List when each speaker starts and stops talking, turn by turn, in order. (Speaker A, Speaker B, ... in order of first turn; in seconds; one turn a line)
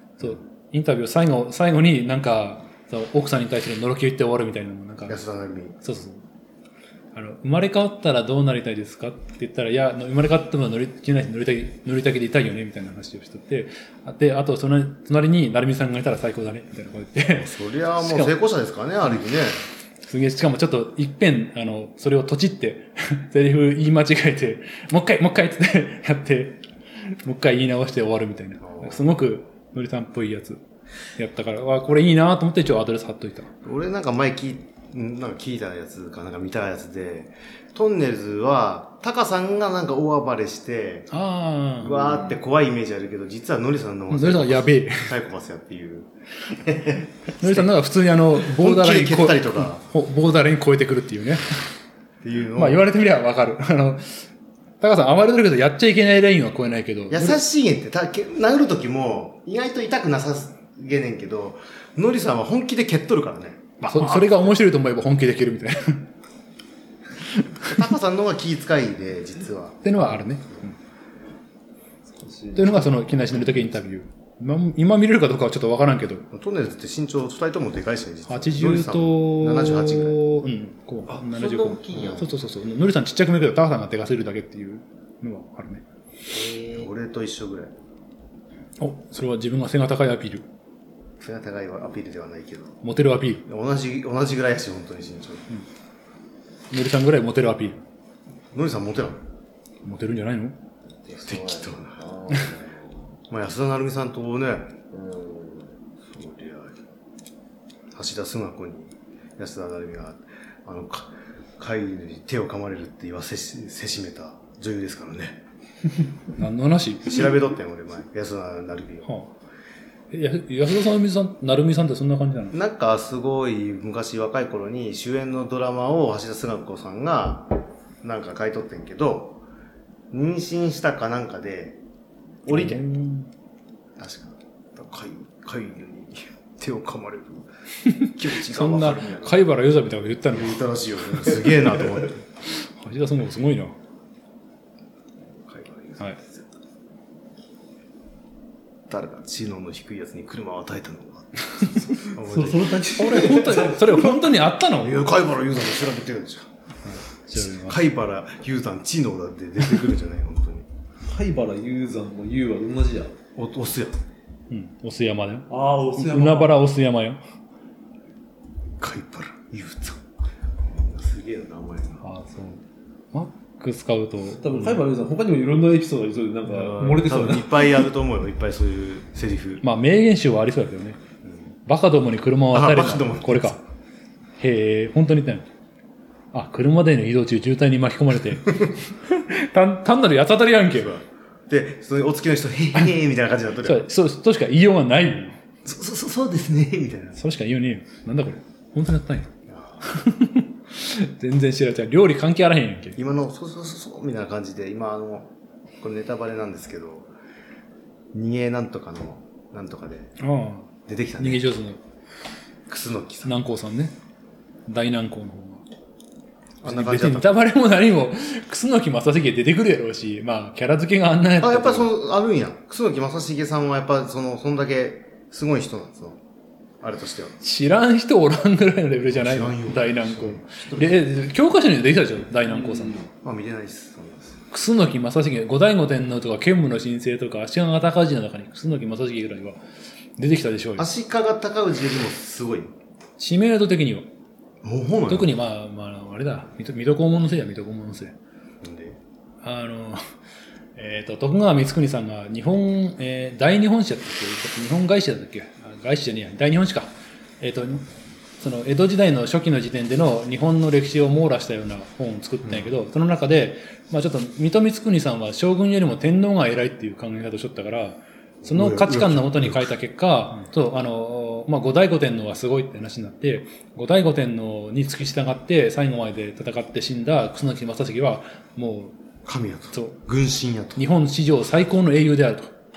Speaker A: 0.2-5.2
Speaker B: 5.1-5.8
Speaker A: 5.8-6.2
Speaker A: 7.1-18.3
Speaker B: 17.3-19.6
Speaker A: 20.1-30.6
Speaker B: 28.6-29.0
Speaker A: 31.1-33.5
Speaker B: 33.6-41.1
Speaker A: 41.1-41.9
Speaker B: 41.8-47.7
Speaker C: 42.0-42.4
Speaker A: 44.1-45.1
Speaker A: 47.4-51.6
Speaker B: 48.4-49.8
Speaker B: 52.2-52.8
Speaker A: 52.5-54.3
Speaker A: 54.8-57.4
Speaker B: 57.1-64.6
Speaker A: 63.8-66.1
Speaker A: 67.3-67.8
Speaker B: 67.7-70.6
Speaker A: 69.8-70.7
Speaker C: 72.1-72.9
Speaker A: 72.5-76.2
Speaker B: 76.3-80.2
Speaker A: 78.3-85.8
Speaker D: 81.1-82.3
Speaker B: 81.9-82.3
Speaker D: 86.3-86.9
Speaker B: 86.7-87.7
Speaker A: 88.8-90.4
Speaker B: 91.2-92.8
Speaker A: 92.8-93.4
Speaker B: 93.5-95.5
Speaker A: 96.7-97.8
Speaker B: 98.5-99.2
Speaker A: 99.8-100.6
Speaker D: 101.0-103.0
Speaker B: 101.2-102.0
Speaker B: 103.3-104.7
Speaker D: 104.9-105.7
Speaker B: 106.1-106.8
Speaker B: 107.9-115.4
Speaker A: 116.3-117.3
Speaker B: 117.0-119.1
Speaker A: 119.0-119.3
Speaker A: 120.1-122.5
Speaker B: 122.5-129.4
Speaker B: 130.1-131.8
Speaker B: 132.4-132.9
Speaker A: 132.5-133.3
Speaker B: 134.0-137.5
Speaker A: 137.9-141.5
Speaker B: 138.1-139.5
Speaker B: 140.3-142.2
Speaker A: 142.5-143.7
Speaker B: 145.4-146.5
Speaker B: 148.9-152.7
Speaker A: 151.6-152.0
Speaker C: 152.2-153.9
Speaker A: 152.9-155.0
Speaker B: 154.8-156.5
Speaker A: 156.8-157.8
Speaker B: 157.3-160.7
Speaker C: 161.1-163.2
Speaker B: 163.3-164.0
Speaker A: 164.5-167.2
Speaker C: 165.5-166.6
Speaker B: 168.8-170.0
Speaker B: 170.6-172.0
Speaker A: 172.0-172.6
Speaker A: 173.1-174.8
Speaker C: 174.4-177.7
Speaker B: 176.5-179.6
Speaker A: 179.6-181.0
Speaker B: 181.2-181.5
Speaker A: 181.7-183.6
Speaker B: 182.5-183.6
Speaker A: 184.4-185.4
Speaker A: 186.3-190.9
Speaker B: 190.7-193.9
Speaker A: 193.6-195.4
Speaker B: 195.6-197.2
Speaker A: 197.2-199.3
Speaker B: 199.5-199.8
Speaker A: 199.8-203.0
Speaker B: 203.0-207.1
Speaker B: 208.1-210.1
Speaker A: 210.2-211.8
Speaker B: 210.9-211.5
Speaker B: 212.7-213.3
Speaker A: 213.2-213.9
Speaker A: 214.7-215.6
Speaker B: 216.6-217.4
Speaker A: 216.6-221.9
Speaker B: 221.4-226.2
Speaker B: 226.8-227.3
Speaker A: 227.4-233.0
Speaker B: 229.1-231.0
Speaker C: 232.5-233.1
Speaker B: 233.2-234.4
Speaker A: 234.5-239.6
Speaker A: 240.2-240.9
Speaker B: 240.8-242.7
Speaker A: 243.2-244.1
Speaker B: 244.6-245.3
Speaker A: 245.1-248.1
Speaker B: 248.6-249.0
Speaker A: 249.4-250.0
Speaker A: 250.8-257.9
Speaker A: 258.4-278.9
Speaker B: 268.4-269.7
Speaker B: 279.2-280.8
Speaker A: 279.7-280.0
Speaker A: 280.8-282.5